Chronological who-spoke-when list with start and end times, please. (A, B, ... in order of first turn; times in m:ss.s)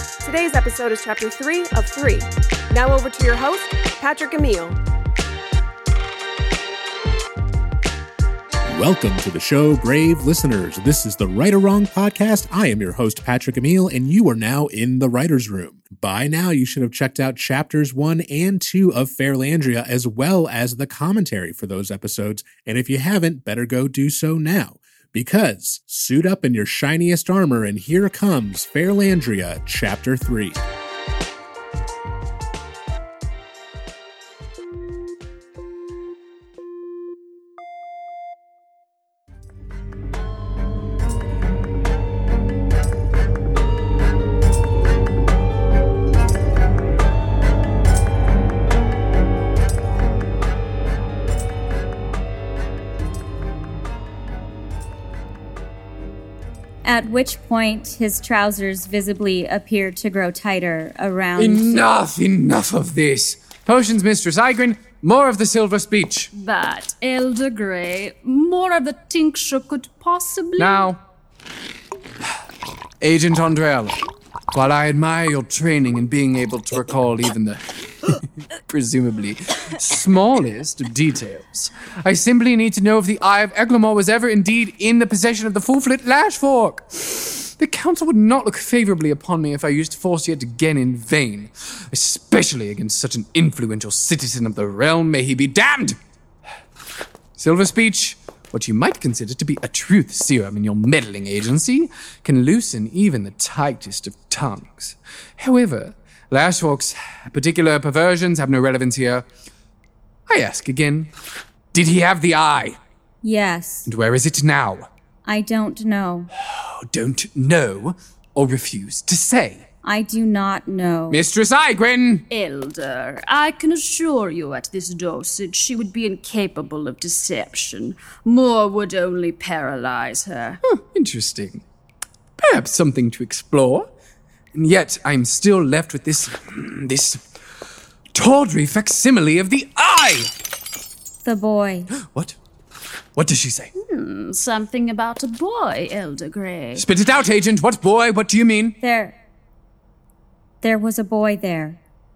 0:00.2-0:04.8 A
0:08.7-0:30.6 B
0:56.8-1:01.8 C
1:01.4-1:06.3 D
1:06.3-1:10.9 E
1:10.6-1:11.0 D
1:13.0-1:18.1 D
1:18.7-1:36.0 D
1:37.4-1:49.2 D
1:50.3-1:51.1 D
1:51.7-1:52.8 D
1:53.2-1:53.9 C
1:53.8-1:54.9 D
1:55.2-1:56.3 C
1:56.5-1:59.6 D
1:59.8-2:01.2 C
2:01.1-2:02.2 D
2:02.3-2:10.6 E
2:10.6-2:11.6 D
2:12.4-2:13.9 D
2:14.5-2:17.2 D
2:18.1-2:20.3 D
2:21.2-2:21.9 C
2:21.9-2:22.4 D
2:23.1-2:23.7 D
2:23.8-2:26.8 E
2:26.7-2:28.8 D
2:28.8-2:29.1 C
2:30.6-2:31.8 C